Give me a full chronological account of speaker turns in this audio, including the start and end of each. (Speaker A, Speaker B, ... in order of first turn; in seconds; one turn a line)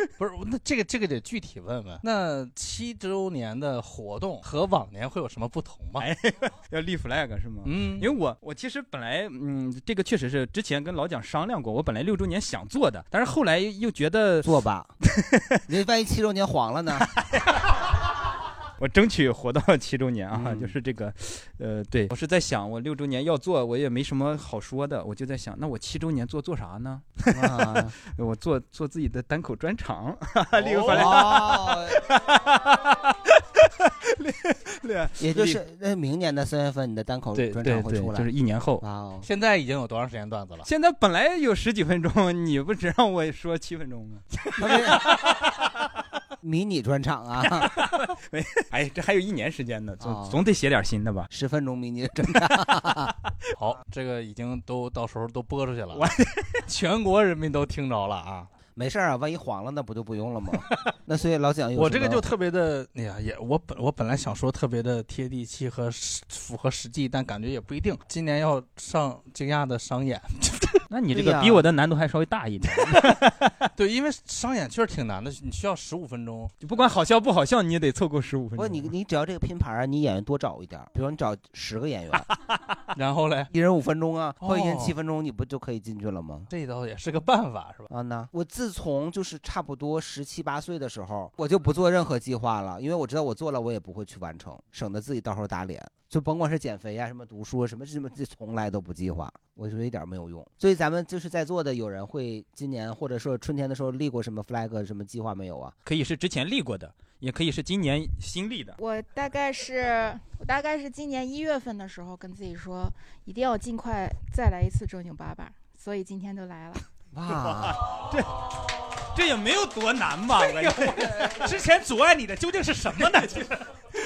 Speaker A: 0.2-6.0
Speaker B: 6.0-14.6
Speaker A: 7.6-8.1
Speaker C: 14.4-14.9
Speaker B: 15.1-15.6
Speaker C: 15.7-17.1
Speaker B: 17.0-17.7
Speaker B: 18.8-35.6
Speaker C: 20.3-20.7
Speaker C: 27.3-27.9
Speaker C: 30.6-32.0
Speaker C: 35.2-38.3
Speaker B: 37.3-38.8
Speaker C: 38.8-39.3
Speaker A: 39.2-40.7
Speaker B: 40.6-45.5
Speaker C: 44.6-45.1
Speaker C: 46.4-47.7
Speaker B: 47.6-51.3
Speaker C: 50.0-50.4
Speaker C: 51.3-53.1
Speaker A: 53.5-56.1
Speaker B: 55.9-56.6
Speaker A: 56.6-58.5
Speaker C: 58.7-62.2
Speaker A: 61.8-70.8
Speaker B: 70.9-73.5
Speaker C: 71.1-71.6
Speaker A: 73.8-76.5
Speaker B: 76.6-78.9
Speaker C: 78.6-82.2
Speaker A: 82.9-83.5
Speaker C: 83.5-86.5
Speaker A: 84.4-84.9
Speaker A: 86.5-87.9
Speaker C: 87.9-105.7
Speaker B: 105.8-108.8
Speaker D: 108.8-116.8
Speaker C: 117.1-117.8
Speaker B: 117.3-121.4
Speaker A: 120.4-123.5
Speaker B: 122.9-123.5